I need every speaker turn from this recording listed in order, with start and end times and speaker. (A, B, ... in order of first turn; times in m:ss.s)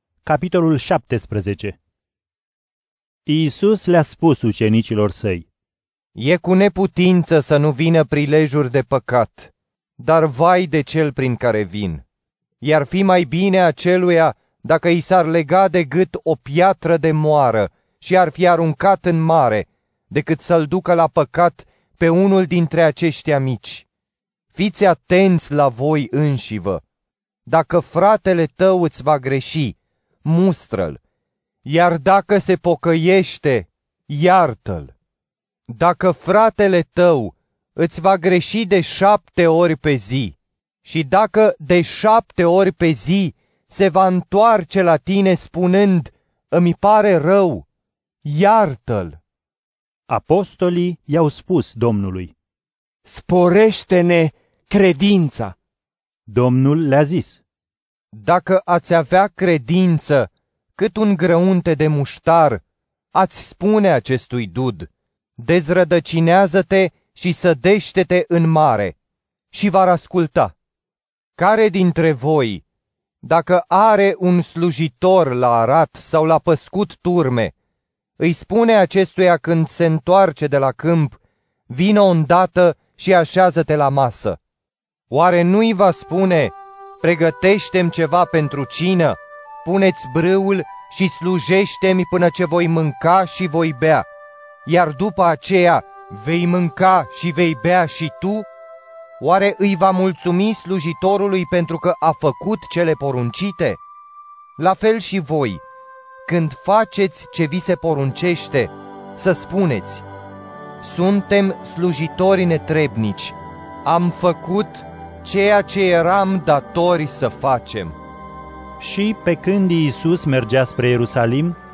0:00.2-0:01.8 A
0:03.3-0:05.5 A
0:06.2-0:12.0 B
0:12.6-0:23.9 B
0:24.5-0:26.8 B
0:27.5-0:31.0 B
0:31.6-0:34.9 B
0:35.7-0:47.7 B
0:48.2-0:49.2 B
0:50.1-0:52.3 A
0:53.1-0:55.6 C
0:56.3-0:57.4 A
0:58.1-1:02.6 B
1:03.1-1:09.0 B
1:09.5-1:10.5 B
1:11.4-1:12.6 B
1:13.2-1:17.5 B
1:18.2-1:24.4 B
1:25.1-1:34.1 B
1:34.7-1:38.5 B
1:39.2-1:43.8 B
1:44.6-1:45.6 B
1:46.2-1:50.0 B
1:50.8-1:58.0 B
1:58.8-2:01.6 A